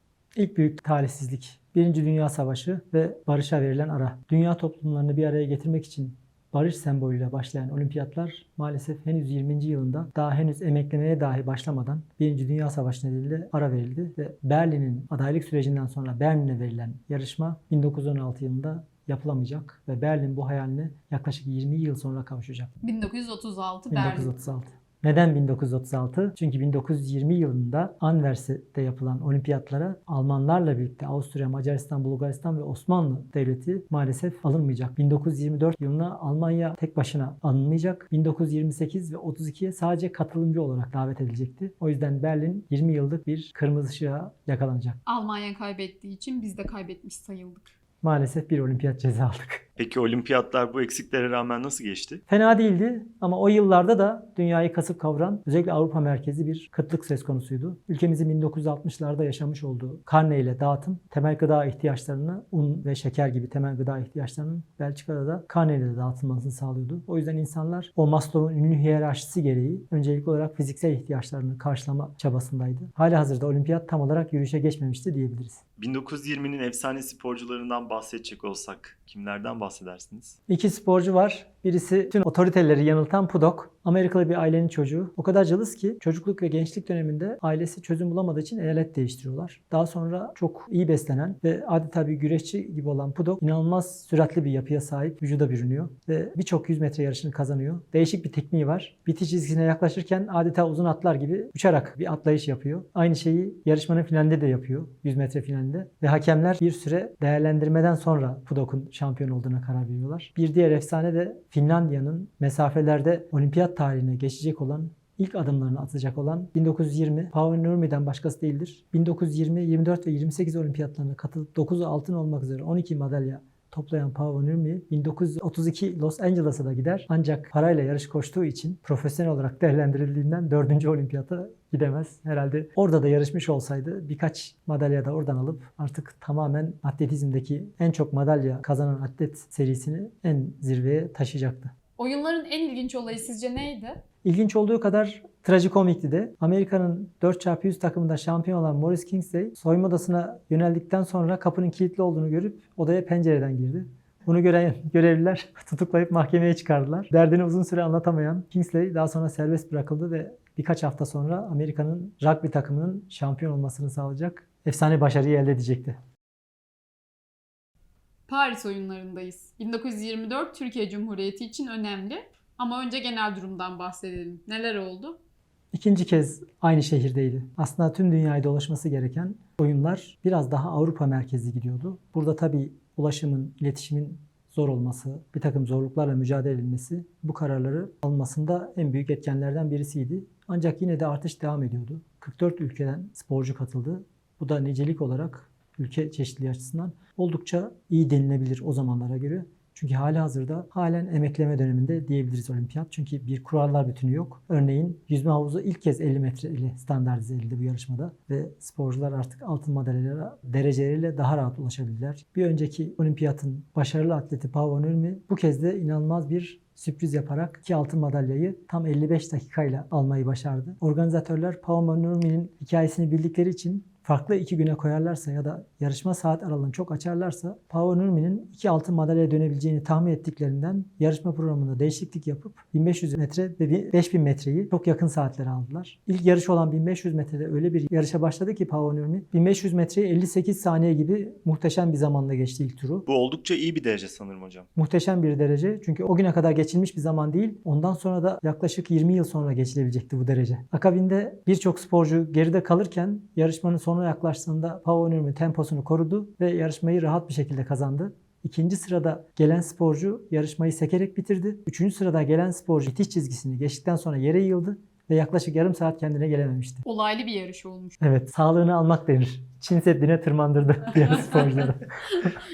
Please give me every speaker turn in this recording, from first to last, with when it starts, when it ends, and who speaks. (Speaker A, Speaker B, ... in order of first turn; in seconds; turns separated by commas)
Speaker A: 0.4-22.7, Speaker B: 22.8-24.4, Speaker A: 23.9-45.0, Speaker B: 45.1-47.7, Speaker A: 48.0-49.6, Speaker C: 49.8-52.2, Speaker A: 52.3-75.6, Speaker C: 75.8-80.4, Speaker A: 80.5-141.7, Speaker B: 142.0-144.0, Speaker A: 144.2-166.0, Speaker B: 168.3-175.2, Speaker A: 175.7-243.1, Speaker C: 243.1-244.7, Speaker A: 244.8-266.8, Speaker B: 266.9-268.0, Speaker A: 268.0-272.4